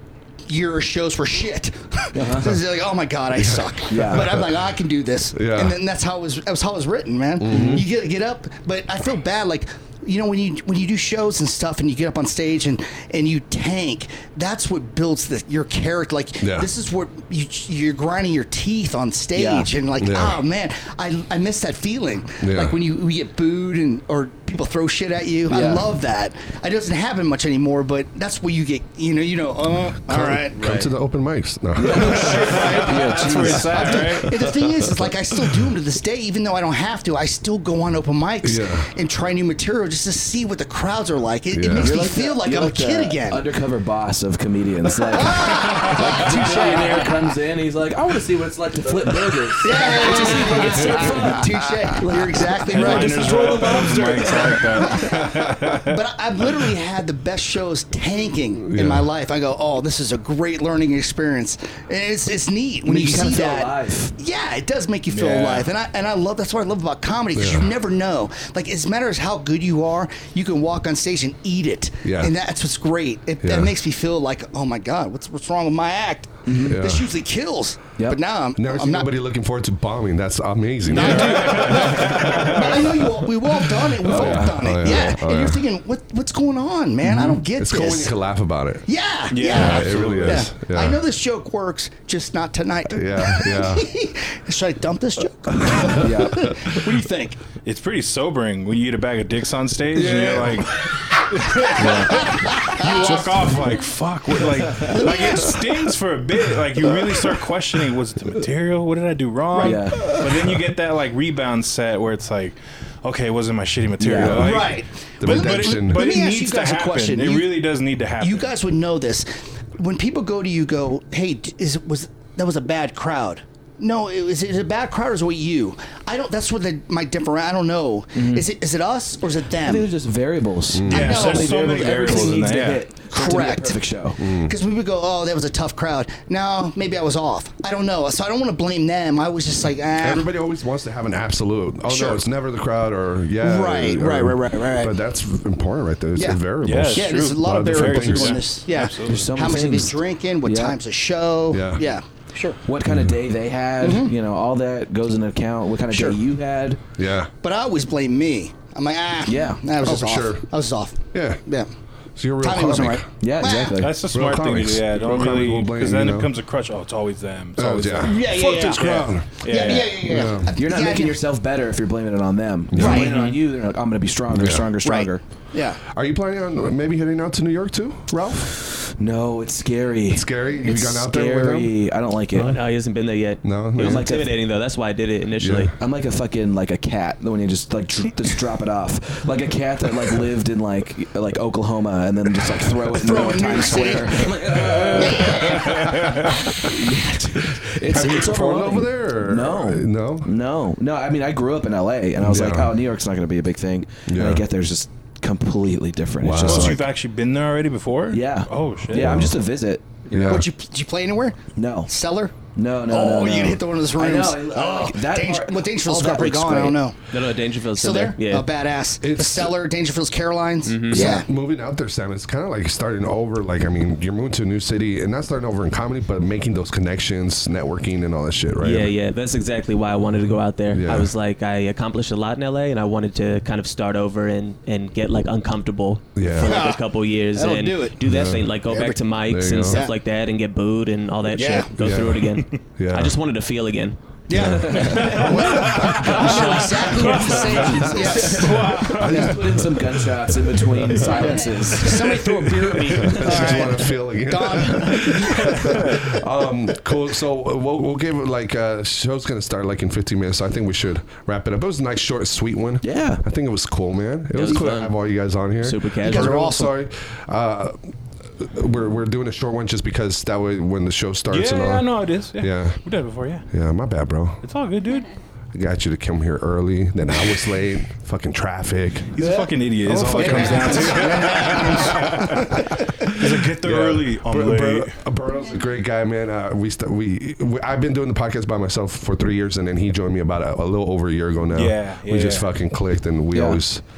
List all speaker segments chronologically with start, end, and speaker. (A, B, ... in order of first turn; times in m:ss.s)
0:00.5-0:30.6 A
0:02.1-0:02.6 B
0:03.3-0:04.7 C
0:03.9-0:04.3 B
0:05.3-0:05.8 C
0:07.4-0:07.8 C
0:07.5-0:07.8 B
0:16.4-0:16.7 C
0:19.3-0:19.7 B
0:20.0-0:20.4 C
0:22.4-0:22.8 C
0:25.5-0:25.9 B
0:30.1-0:32.9 C
0:30.5-0:30.9 D
0:31.7-0:34.0 B
0:32.0-0:43.4 A
0:32.2-0:34.4 E
0:33.7-0:35.6 C
0:38.4-0:38.9 C
0:41.5-0:42.0 C
0:41.7-0:54.6 B
0:45.0-0:47.3 A
0:45.8-0:46.3 E
0:49.6-1:19.1 A
0:52.6-0:55.9 E
0:58.7-0:59.1 C
1:02.8-1:04.1 B
1:05.1-1:05.7 E
1:07.3-1:07.7 C
1:12.0-1:12.3 C
1:13.4-1:13.7 C
1:16.4-1:16.8 B
1:16.7-1:17.0 C
1:18.6-1:25.6 C
1:20.9-1:28.2 A
1:20.9-1:22.7 E
1:24.1-1:24.5 B
1:24.8-1:25.1 D
1:27.0-1:28.8 C
1:28.9-1:37.4 A
1:29.3-1:30.5 E
1:29.4-1:31.0 C
1:32.9-1:33.9 C
1:35.5-1:36.7 C
1:36.0-1:36.6 B
1:37.6-1:58.5 E
1:40.0-1:40.4 C
1:40.0-1:40.6 A
1:41.8-1:42.2 B
1:41.8-1:43.3 A
1:44.8-1:45.8 A
1:49.5-1:50.1 A
1:49.6-1:50.2 B
1:54.0-1:54.6 B
1:54.2-1:54.6 C
1:54.2-1:57.6 A
1:55.2-1:56.0 C
1:58.2-2:09.9 A
2:08.1-2:08.5 B
2:09.6-2:14.2 B
2:10.7-2:11.2 C
2:10.8-2:13.0 E
2:10.9-2:12.5 A
2:13.1-2:20.3 A
2:14.2-2:14.6 C
2:20.0-2:28.4 C
2:21.9-2:22.2 A
2:23.4-2:25.0 A
2:26.2-2:26.4 A
2:26.6-2:29.5 E
2:26.9-2:32.6 A
2:29.0-2:30.8 B
2:31.5-2:31.9 C
2:32.7-2:36.8 B
2:32.8-2:33.2 C
2:33.8-2:34.1 A
2:35.9-2:36.2 A
2:37.0-2:37.3 C
2:37.4-2:41.7 A
2:39.2-2:39.6 B
2:39.8-2:40.4 C
2:41.1-2:41.4 C
2:42.2-2:43.0 C
2:42.4-2:43.8 A
2:43.2-2:44.0 B
2:43.8-2:50.3 E
2:44.1-2:46.3 C
2:47.6-2:49.4 C
2:48.0-2:51.2 A
2:49.5-2:49.9 D
2:50.0-2:50.5 C
2:50.6-2:55.2 B
2:52.7-2:53.1 C
2:52.7-2:53.2 A
2:54.3-2:54.7 C
2:54.8-2:55.8 A
2:55.8-2:58.6 C
2:58.8-3:02.6 B
3:00.1-3:01.7 C
3:02.3-3:05.7 D
3:03.4-3:04.1 C
3:03.8-3:04.4 B
3:05.4-3:05.7 C
3:05.8-3:26.8 B
3:12.9-3:16.4 A
3:15.7-3:16.0 E
3:17.8-3:20.3 C
3:22.2-3:22.8 C
3:24.1-3:24.4 C
3:26.2-3:26.8 C
3:26.4-3:29.3 E
3:28.1-3:30.4 B
3:28.9-3:29.3 C
3:30.1-3:30.5 C
3:30.3-3:32.4 A
3:31.6-3:31.9 B
3:32.5-3:36.8 B
3:32.9-3:37.0 A
3:37.1-3:38.5 D
3:37.7-3:41.3 A
3:39.0-3:39.5 C
3:40.6-3:41.0 D
3:40.9-3:48.9 C
3:40.9-3:41.2 B
3:48.6-4:04.0 D
3:50.7-3:51.1 C
3:56.1-3:56.6 C
3:56.4-3:58.0 A
3:58.0-3:58.5 C
3:58.7-3:59.0 A
3:59.3-3:59.8 C
3:59.6-3:59.9 A
4:01.3-4:01.7 A
4:01.7-4:03.2 C
4:04.3-4:09.6 A
4:04.3-4:06.2 C
4:04.4-4:05.0 B
4:05.1-4:07.8 E
4:06.0-4:08.2 D
4:07.9-4:12.2 B
4:08.3-4:09.3 E
4:08.9-4:09.7 C
4:10.9-4:16.2 A
4:12.9-4:32.8 C
4:13.0-4:13.6 B
4:22.8-4:23.2 B
4:24.3-4:25.0 D
4:25.6-4:26.4 D
4:26.0-4:26.7 A
4:31.3-4:33.5 E
4:33.5-4:34.4 C
4:34.4-4:35.1 E
4:35.5-4:39.1 C
4:39.1-4:44.9 E
4:39.2-4:42.7 A
4:39.8-4:42.1 C
4:43.2-4:53.8 C
4:51.5-4:52.5 E
4:53.3-4:53.6 B